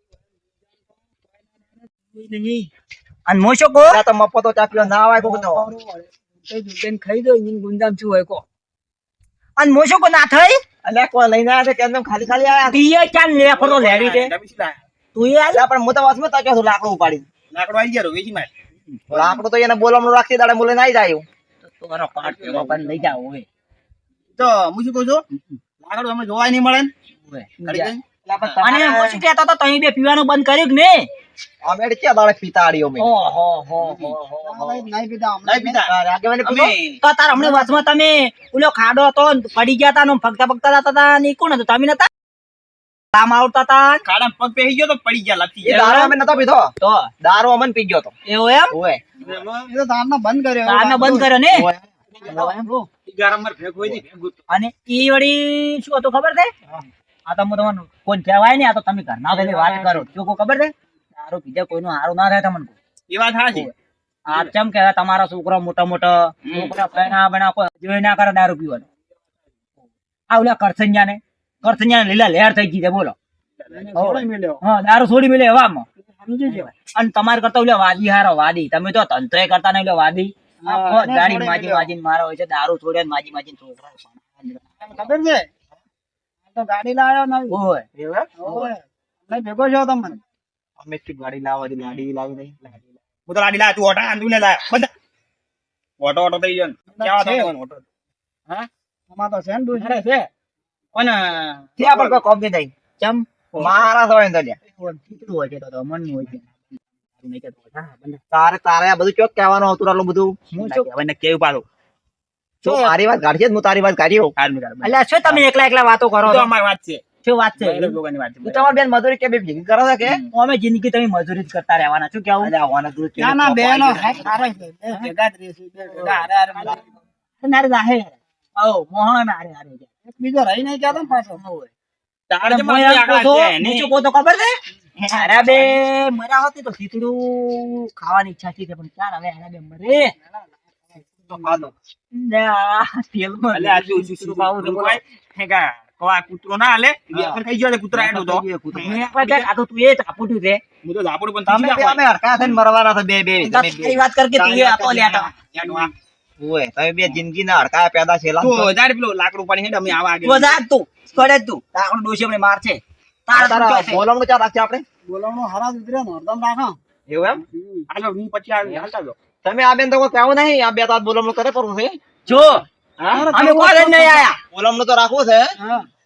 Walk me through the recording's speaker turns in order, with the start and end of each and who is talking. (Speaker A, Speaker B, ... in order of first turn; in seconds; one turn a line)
Speaker A: 1.6-2.7
Speaker B: 3.3-4.0
Speaker C: 3.9-5.7
Speaker A: 4.7-8.4
Speaker B: 9.6-10.6
Speaker C: 10.8-12.8
Speaker B: 12.6-14.3
Speaker D: 13.5-14.8
Speaker B: 15.1-15.6
Speaker C: 15.5-17.2
Speaker D: 17.5-18.5
Speaker D: 19.1-19.4
Speaker C: 19.1-21.2
Speaker B: 21.6-23.4
Speaker D: 22.2-23.0
Speaker D: 24.3-25.2
Speaker D: 25.8-26.9
Speaker B: 27.3-27.9
Speaker D: 27.6-28.0
Speaker C: 28.2-29.2
Speaker B: 28.6-31.1
Speaker C: 31.6-33.1
Speaker B: 33.0-34.5
Speaker A: 34.4-35.9
Speaker D: 35.4-35.9
Speaker C: 35.9-36.8
Speaker D: 36.4-37.0
Speaker B: 37.0-42.1
Speaker A: 37.3-37.7
Speaker B: 43.1-44.0
Speaker D: 44.0-45.8
Speaker C: 45.6-48.1
Speaker B: 45.6-46.1
Speaker B: 46.8-47.1
Speaker B: 48.2-48.7
Speaker C: 48.7-49.0
Speaker D: 49.2-49.7
Speaker A: 49.7-51.3
Speaker B: 50.6-51.7
Speaker C: 51.5-52.6
Speaker D: 52.2-54.4
Speaker B: 52.2-52.9
Speaker B: 54.5-56.5
Speaker B: 57.3-62.8
Speaker D: 59.3-60.1
Speaker D: 63.1-63.7
Speaker B: 64.3-68.8
Speaker D: 66.4-66.8
Speaker B: 70.3-73.1
Speaker D: 73.6-73.9
Speaker A: 73.7-74.6
Speaker B: 74.0-75.8
Speaker A: 76.0-76.7
Speaker B: 76.5-84.6
Speaker A: 80.6-81.9
Speaker A: 84.8-85.5
Speaker A: 86.5-87.6
Speaker B: 87.5-87.8
Speaker C: 87.9-88.7
Speaker A: 88.4-90.2
Speaker C: 90.8-92.8
Speaker D: 93.3-94.9
Speaker D: 96.0-97.8
Speaker A: 96.9-97.5
Speaker A: 99.1-100.0
Speaker D: 99.7-100.3
Speaker D: 100.9-102.2
Speaker C: 101.8-102.7
Speaker B: 103.0-103.2
Speaker C: 103.6-104.6
Speaker B: 104.7-106.6
Speaker B: 107.2-108.2
Speaker C: 108.3-110.4
Speaker B: 110.5-110.9
Speaker D: 110.6-111.6
Speaker C: 112.6-114.3
Speaker B: 112.6-112.9
Speaker D: 114.3-115.4
Speaker B: 114.8-116.5
Speaker D: 116.2-117.0
Speaker B: 117.2-118.0
Speaker D: 117.6-118.7
Speaker C: 118.4-120.2
Speaker B: 120.0-122.5
Speaker C: 122.4-124.3
Speaker A: 123.2-126.8
Speaker D: 126.0-126.8
Speaker B: 127.4-129.9
Speaker A: 130.0-131.4
Speaker B: 130.9-131.7
Speaker D: 132.3-133.9
Speaker B: 132.4-134.6
Speaker D: 134.9-135.8
Speaker B: 135.1-140.1
Speaker C: 141.3-141.7
Speaker B: 142.1-145.0
Speaker D: 143.5-149.5
Speaker C: 148.0-148.9
Speaker B: 148.7-150.6
Speaker D: 150.8-152.0
Speaker C: 151.4-154.0
Speaker B: 153.4-155.3
Speaker D: 154.4-155.9
Speaker C: 156.4-158.7
Speaker D: 158.4-160.6
Speaker B: 160.2-164.0
Speaker C: 163.3-164.8
Speaker A: 165.1-166.8
Speaker C: 167.1-167.4
Speaker A: 167.4-167.8
Speaker D: 167.9-169.2
Speaker C: 169.4-172.0
Speaker B: 172.3-172.6
Speaker A: 172.3-174.3
Speaker B: 173.3-174.4
Speaker C: 174.5-175.5
Speaker A: 175.6-175.9